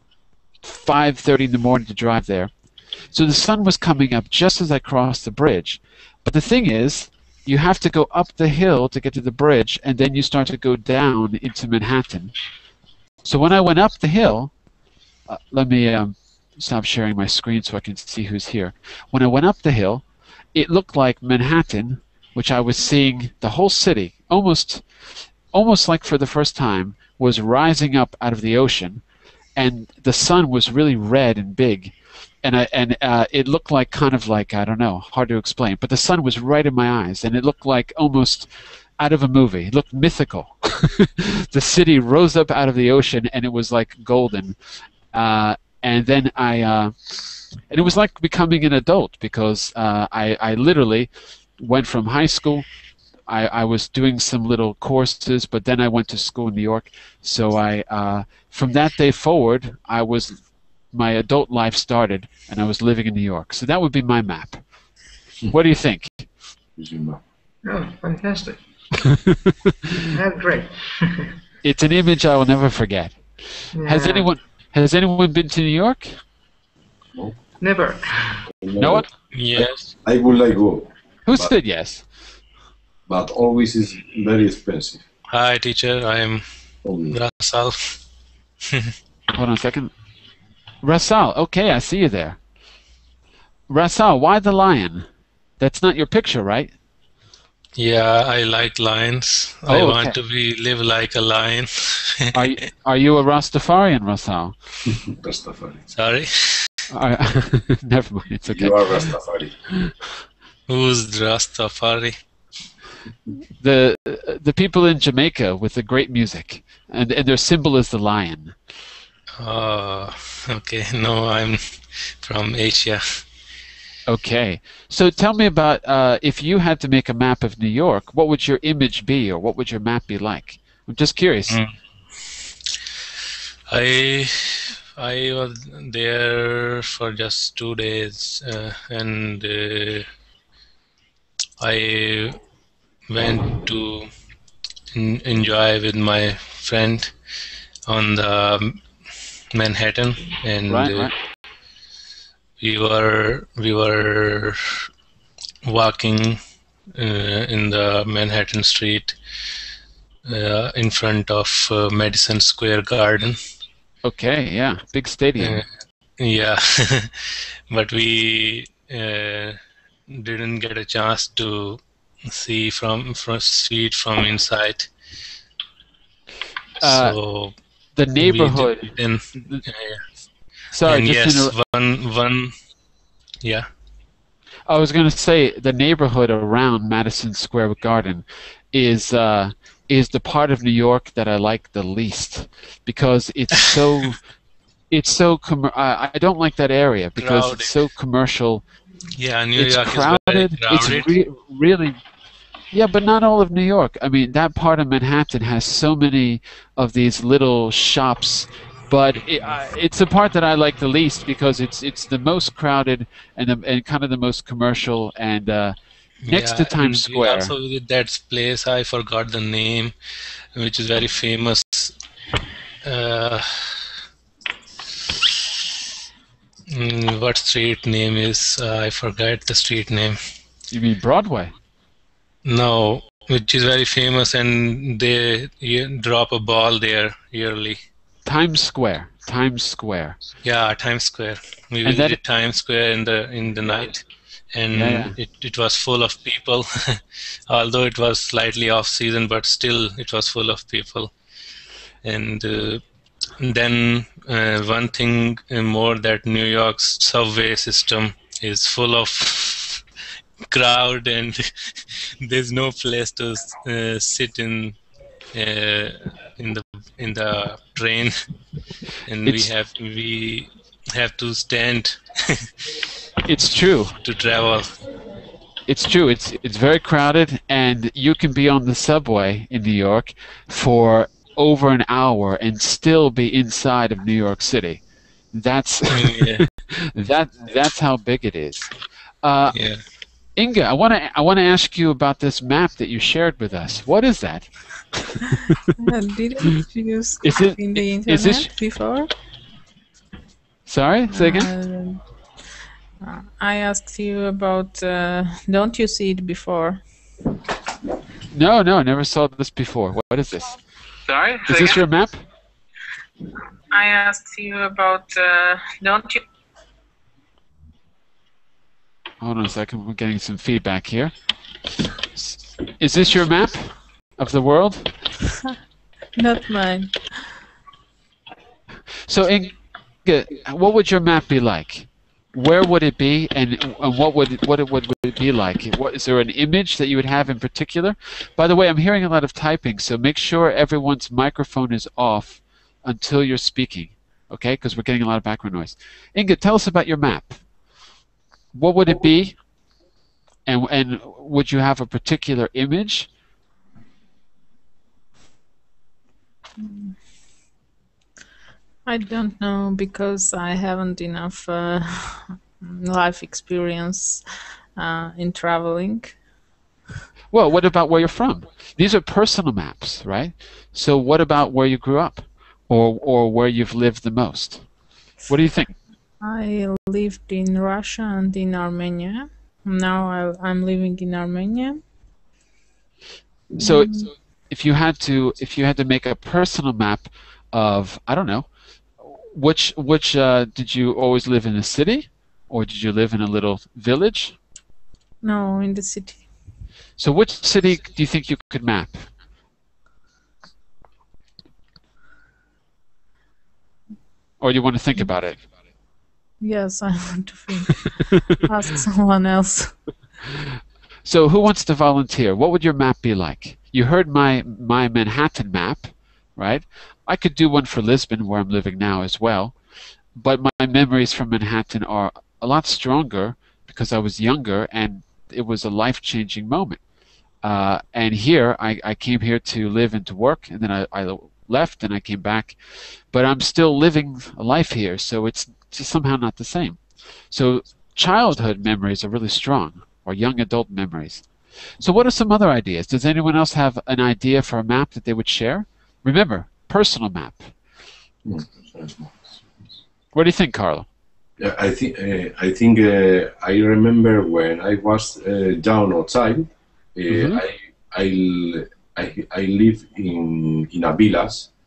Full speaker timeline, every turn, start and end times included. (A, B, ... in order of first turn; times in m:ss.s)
0:00.6-0:02.5 A
0:03.1-0:12.3 A
0:13.2-0:14.5 A
0:15.3-0:24.9 A
0:25.5-0:29.0 A
0:29.6-0:44.6 A
0:45.1-0:46.9 A
0:47.7-0:52.6 A
0:53.3-1:00.4 A
1:00.9-1:04.6 A
1:05.5-1:06.3 A
1:06.8-1:07.2 B
1:07.6-1:08.6 C
1:09.0-1:10.1 A
1:10.1-1:11.3 C
1:11.6-1:16.2 A
1:13.7-1:14.3 C
1:17.6-1:18.4 C
1:18.6-1:21.5 B
1:18.8-1:19.1 A
1:19.3-1:19.9 D
1:21.2-1:22.0 A
1:23.1-1:25.0 B
1:25.3-1:26.4 D
1:26.8-1:27.2 B
1:27.1-1:28.0 D
1:29.3-1:29.9 A
1:30.8-1:32.4 A
1:33.7-1:35.1 A
1:35.6-1:36.7 A
1:37.8-1:42.4 D
1:39.7-1:40.2 A
1:42.3-1:44.6 A
1:44.9-1:45.8 B
1:45.9-1:46.7 D
1:46.9-1:49.0 A
1:48.5-1:49.5 B
1:50.7-1:52.2 D
1:53.6-1:58.6 A
1:59.4-2:03.2 D
2:04.0-2:11.6 A
2:11.5-2:11.7 D
2:13.7-2:20.1 D
2:21.6-2:22.4 D
2:23.1-2:24.1 D
2:24.9-2:27.1 D
2:27.9-2:28.8 D
2:29.5-2:31.1 D
2:30.7-2:31.1 A
2:32.6-2:34.6 D
2:35.6-2:36.4 D
2:37.0-2:39.2 D
2:40.3-2:43.4 D
2:44.0-2:45.6 A
2:45.4-2:45.6 D
2:46.2-2:49.6 D
2:50.1-2:54.9 D
2:56.8-2:57.2 A
2:56.8-2:57.5 D
2:58.0-2:59.6 A
2:58.2-3:00.0 D
3:00.7-3:01.5 A
3:00.8-3:02.5 D
3:03.4-3:03.7 D
3:04.7-3:14.2 A
3:14.9-3:18.6 A
3:17.2-3:17.7 D
3:19.2-3:21.2 D
3:19.5-3:22.0 A
3:22.7-3:37.5 A
3:36.2-3:39.9 D
3:40.5-3:41.9 D
3:42.8-3:43.8 D
3:45.1-3:45.7 D
3:46.7-3:50.2 D
3:50.7-3:51.5 A
3:52.4-3:57.8 D
3:58.2-4:00.2 A
4:00.4-4:11.1 D
4:01.8-4:02.2 A
4:04.7-4:05.1 A
4:12.0-4:12.8 D
4:13.4-4:19.8 D
4:20.5-4:24.8 D
4:25.3-4:28.1 D
4:29.1-4:32.7 D
4:29.2-4:29.5 A
4:33.2-4:33.9 A
4:34.0-4:34.7 D
4:35.7-4:48.7 A
4:45.9-4:46.4 D
4:49.2-4:49.6 A
4:49.5-4:49.8 D
4:50.4-4:55.7 A
4:55.8-4:59.1 E
4:57.2-4:58.5 A
5:00.6-5:01.5 A
5:01.1-5:02.0 E
5:03.0-5:06.8 E
5:08.3-5:10.6 A
5:11.1-5:11.8 E
5:11.2-5:12.2 A
5:13.7-5:16.2 E
5:19.2-5:21.1 A
5:22.1-5:24.9 A
5:26.2-5:27.0 E
5:29.0-5:47.4 A
5:48.5-5:49.4 A
5:50.5-5:53.1 A
5:56.6-5:57.0 E
5:58.8-6:04.2 E
6:04.8-6:06.2 E
6:07.3-6:14.6 A
6:15.3-6:15.8 A
6:16.2-6:21.8 E
6:23.5-6:28.5 A
6:23.6-6:24.1 E
6:29.0-6:34.4 A
6:35.2-6:36.2 E
6:37.0-6:39.0 A
6:44.4-6:45.4 A
6:46.4-6:49.7 E
6:50.3-6:59.5 A
7:00.1-7:06.8 A
7:07.4-7:12.6 A
7:13.1-7:16.8 A
7:17.3-7:21.2 A
7:21.8-7:27.5 A
7:28.2-7:29.6 B
7:30.1-7:30.9 A
7:31.4-7:41.5 B
7:37.1-7:37.4 A